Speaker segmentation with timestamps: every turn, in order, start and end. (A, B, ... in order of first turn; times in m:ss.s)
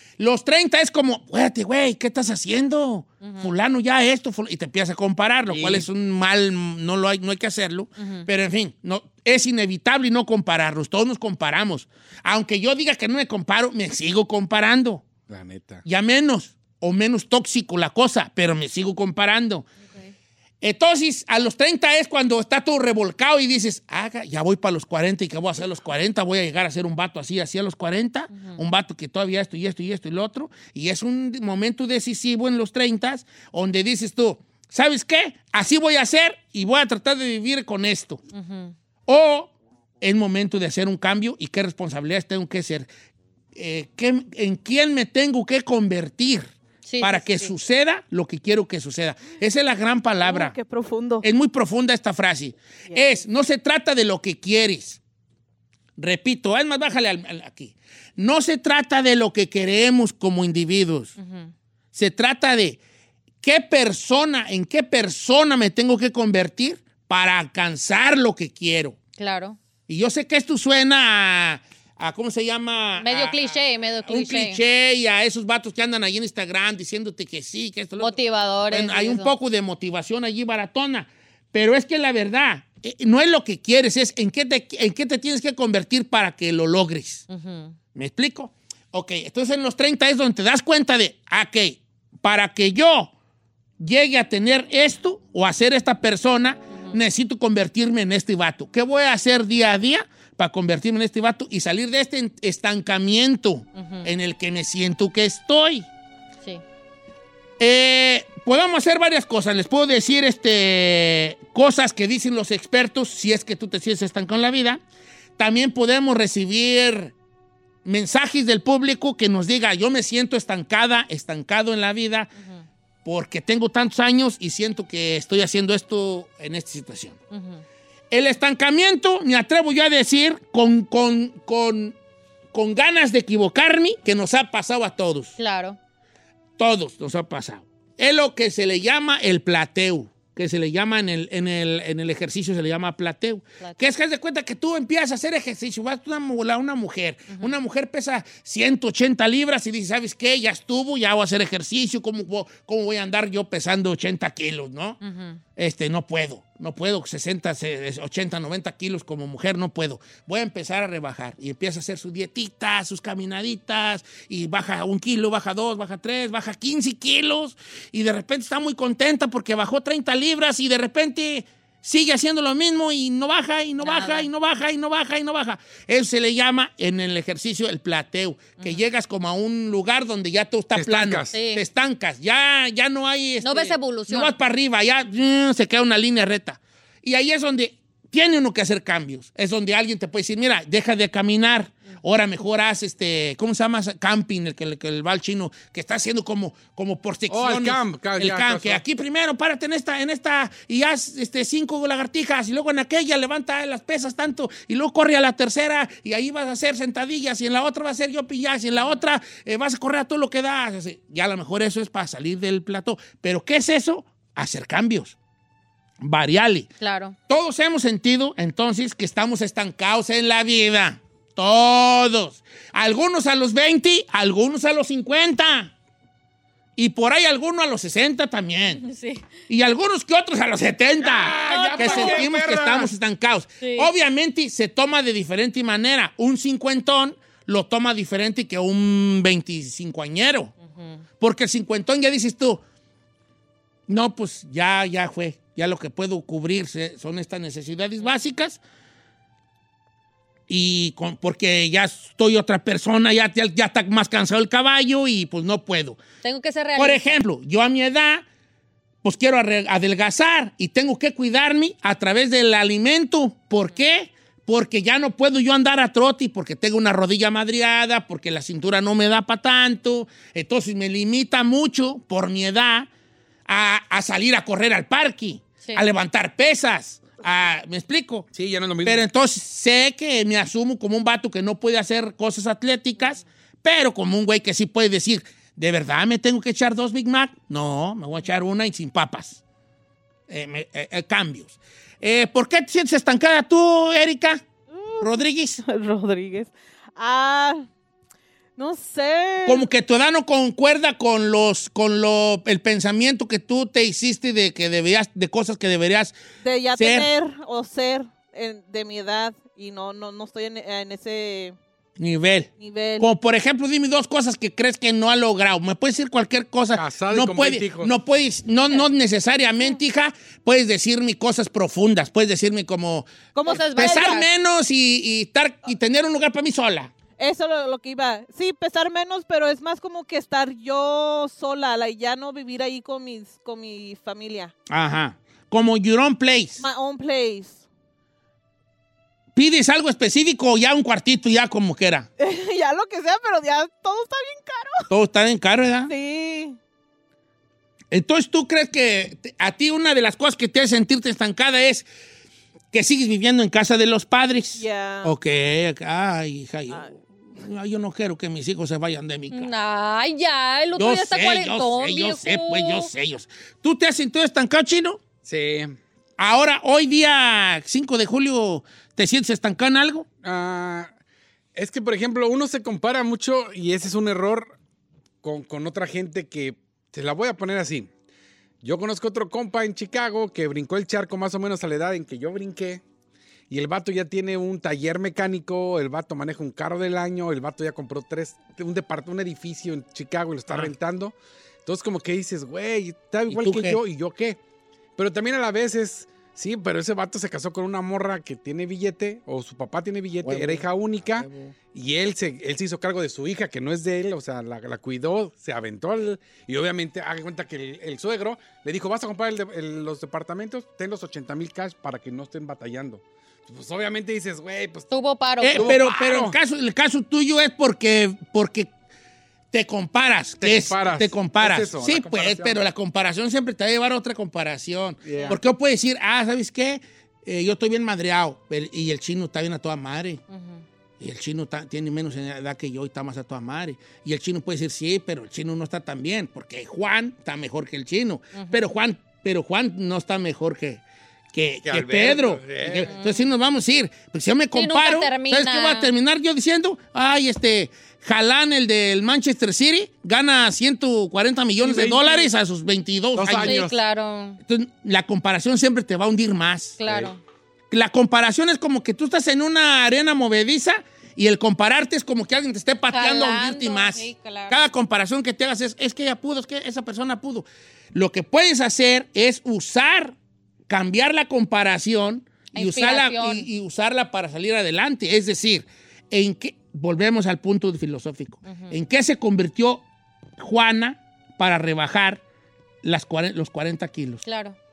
0:00.2-0:15.0 A
0:03.2-0:03.5 B
0:05.5-0:05.8 C
0:08.0-0:08.3 B
0:15.3-0:15.8 C
0:15.8-0:19.7 A
0:20.6-0:38.2 A
0:28.3-0:28.6 B
0:38.3-0:38.7 B
0:39.1-0:42.9 A
0:43.5-0:50.6 A
0:46.8-0:47.5 B
0:50.2-0:51.2 D
0:51.2-0:55.0 A
0:52.9-0:53.2 D
0:56.0-1:01.1 A
1:01.2-1:01.5 B
1:01.9-1:02.8 A
1:03.4-1:09.0 A
1:09.2-1:09.6 B
1:09.9-1:13.5 A
1:13.0-1:14.6 B
1:14.1-1:18.2 A
1:18.0-1:19.3 B
1:18.7-1:27.2 A
1:27.3-1:27.8 B
1:27.9-1:33.1 A
1:33.8-1:45.9 A
1:43.8-1:44.1 B
1:47.6-1:54.8 A
1:55.4-1:57.1 A
1:57.8-2:02.3 A
2:03.0-2:07.2 A
2:07.3-2:07.6 B
2:08.1-2:11.9 A
2:12.5-2:15.4 A
2:15.4-2:15.8 B
2:16.6-2:35.0 A
2:35.0-2:35.4 B
2:35.6-3:35.2 A
2:53.8-2:54.3 B
3:00.7-3:01.4 C
3:01.3-3:01.6 B
3:03.4-3:04.3 B
3:17.3-3:18.8 C
3:36.0-3:36.7 A
3:36.8-3:37.2 B
3:37.3-3:45.7 A
3:46.8-3:48.8 A
3:48.8-3:49.2 B
3:49.5-4:00.5 A
3:51.0-3:52.9 C
3:51.4-3:52.2 B
3:53.6-3:53.9 B
4:00.8-4:01.0 B
4:01.2-4:02.6 A
4:03.9-4:08.6 A
4:10.5-4:16.0 A
4:16.2-4:17.2 B
4:16.8-4:18.2 A
4:19.0-4:32.9 A
4:33.5-4:38.3 A
4:38.3-4:39.0 C
4:38.8-4:49.4 A
4:50.3-4:54.4 A
4:54.7-4:57.6 D
4:55.0-4:55.6 A
4:58.6-4:59.7 D
4:59.4-5:06.1 A
5:06.4-5:11.6 D
5:06.8-5:07.1 A
5:12.0-5:26.9 A
5:12.6-5:13.1 D
5:16.7-5:17.9 C
5:23.3-5:24.2 D
5:23.5-5:24.2 B
5:27.2-5:34.5 D
5:34.7-5:36.6 A
5:36.6-5:37.6 D
5:39.3-5:42.1 A
5:42.2-5:44.9 D
5:44.9-5:45.9 A
5:45.9-5:46.6 D
5:47.9-5:51.8 A
5:52.7-5:59.5 A
5:54.6-5:55.1 D
5:59.3-6:02.9 B
6:00.8-6:05.0 A
6:05.2-6:05.8 C
6:06.2-6:10.0 A
6:10.2-6:10.9 C
6:11.5-6:14.5 C
6:15.2-6:17.9 C
6:18.6-6:22.8 C
6:23.5-6:34.4 C
6:33.3-6:33.8 A
6:35.0-6:54.9 C
6:40.2-6:41.5 A
6:54.9-6:55.7 B
6:55.4-6:58.7 A
6:55.5-6:56.4 C
6:59.5-7:10.2 A
7:00.4-7:02.6 C
7:05.0-7:05.4 C
7:10.3-7:10.6 B
7:11.0-7:20.8 A
7:18.3-7:18.6 B
7:21.3-7:33.6 A
7:21.6-7:22.9 C
7:22.9-7:23.3 B
7:24.5-7:25.9 B
7:31.6-7:32.3 C
7:33.2-7:33.7 C
7:33.3-7:34.4 B
7:34.4-7:36.8 A
7:36.8-7:37.2 B
7:36.8-7:37.1 C
7:37.7-7:50.1 A
7:42.9-7:44.6 B
7:50.7-7:59.8 A
7:52.5-7:53.5 B
7:58.5-7:58.7 B
8:00.4-8:02.2 A
8:02.8-8:04.2 A
8:04.2-8:04.6 B